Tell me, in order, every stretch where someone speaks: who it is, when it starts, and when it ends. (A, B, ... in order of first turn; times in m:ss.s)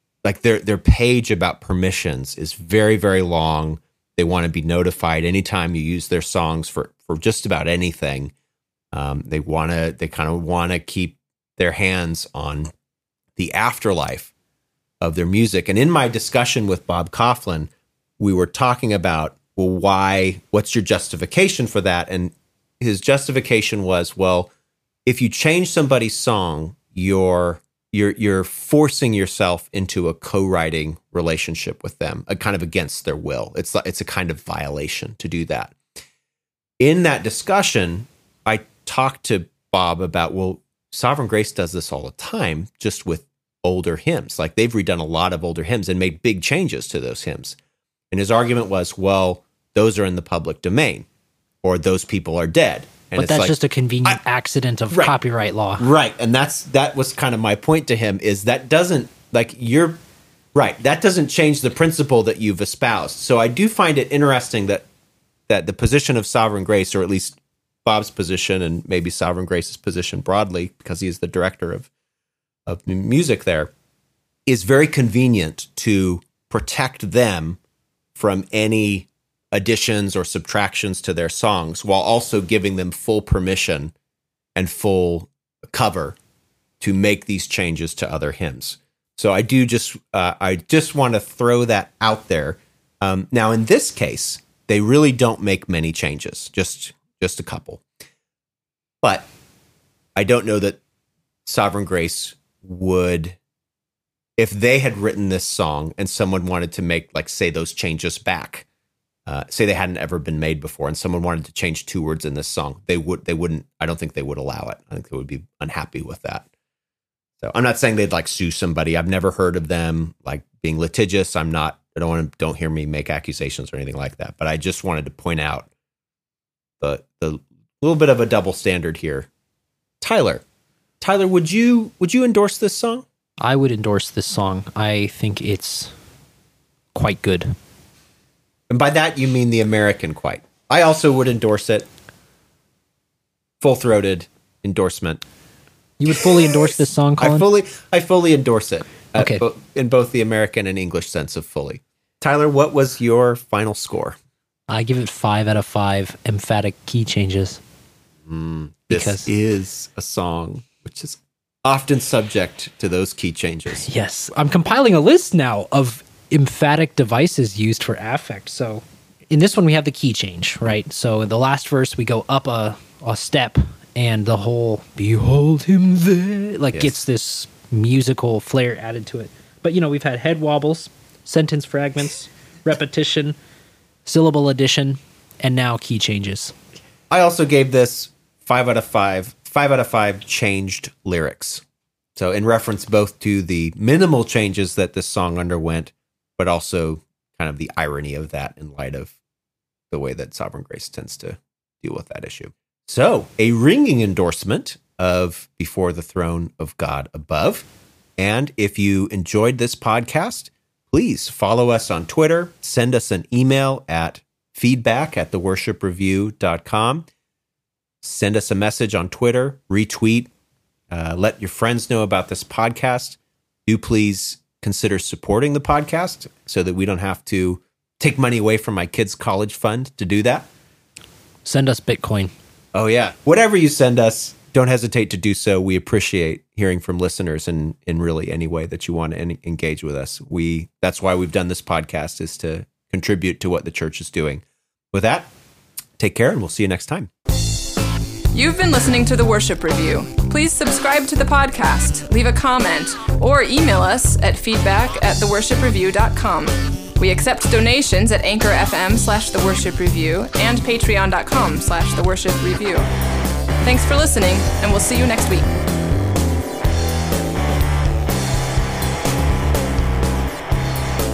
0:00.2-0:08.3 A
0:08.9-0:12.7 A
0:13.4-0:14.3 A
0:15.0-0:24.5 A
0:25.1-0:35.8 A
0:36.8-0:47.6 A
0:48.1-0:51.1 A
0:51.6-0:54.2 A
0:53.2-0:55.9 B
0:54.9-0:55.2 A
0:55.8-1:00.0 A
1:00.5-1:04.9 A
1:05.5-1:11.9 A
1:12.7-1:13.7 A
1:14.5-1:17.6 A
1:18.2-1:23.9 A
1:24.6-1:26.2 A
1:26.8-1:37.8 A
1:39.0-1:39.3 A
1:40.2-1:40.8 A
1:41.4-1:43.4 A
1:44.4-1:48.7 A
1:49.3-1:56.5 A
1:57.4-2:05.7 A
2:06.8-2:09.3 A
2:10.0-2:10.4 A
2:11.0-2:13.0 A
2:13.4-2:15.9 B
2:17.0-2:17.6 B
2:18.7-2:21.9 A
2:23.6-2:25.2 A
2:26.0-2:27.4 B
2:26.1-2:26.5 A
2:27.2-2:34.2 A
2:29.2-2:29.4 B
2:34.7-2:37.6 B
2:38.3-2:43.9 A
2:38.9-2:39.3 B
2:43.8-3:03.4 B
2:56.7-2:57.0 A
3:04.1-3:06.6 B
3:07.1-3:11.6 A
3:12.2-3:19.2 A
3:19.9-3:37.1 A
3:38.0-3:40.3 A
3:40.9-3:50.5 A
3:51.4-3:52.3 B
3:52.7-4:05.3 A
4:06.0-4:07.1 A
4:08.3-4:22.9 C
4:23.6-4:25.5 C